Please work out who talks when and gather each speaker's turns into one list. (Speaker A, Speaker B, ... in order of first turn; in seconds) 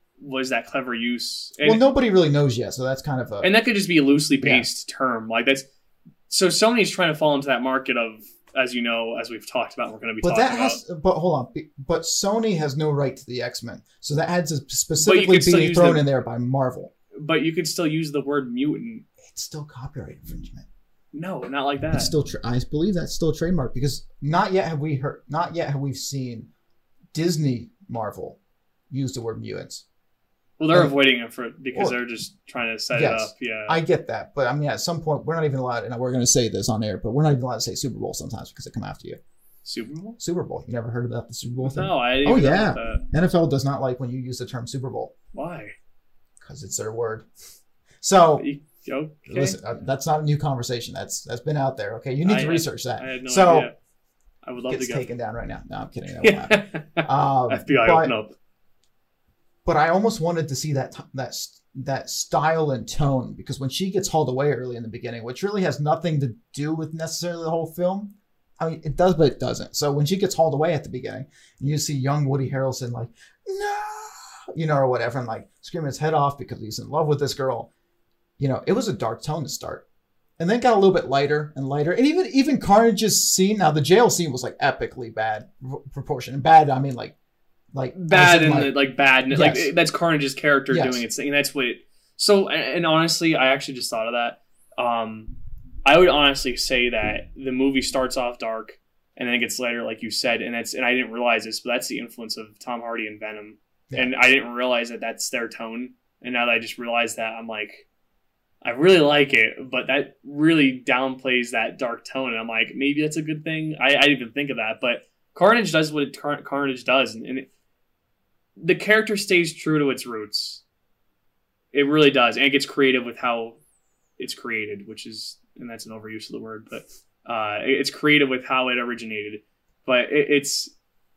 Speaker A: 0.2-1.8, 3.4-5.7, 6.3-10.8, 15.0-16.1, 17.1-19.0, 21.1-22.1, 30.6-33.8, 39.6-40.2, 41.6-43.0, 45.3-45.7, 48.4-49.6, 52.2-53.7, 54.4-55.0, 56.2-58.3, 87.9-107.8, 108.6-117.5, 118.6-120.6, 121.7-123.6, 124.2-130.7
Speaker B: 1.6-3.5, 4.4-4.7, 10.2-16.9, 19.2-20.6, 21.9-26.5, 27.1-28.4, 28.9-29.8, 32.9-39.2, 40.2-45.1, 46.4-47.3, 48.0-48.5, 49.3-53.7, 54.7-58.1, 59.6-77.7, 78.4-79.8, 80.4-87.1, 87.7-88.8, 89.3-89.7, 90.7-91.0, 103.9-104.1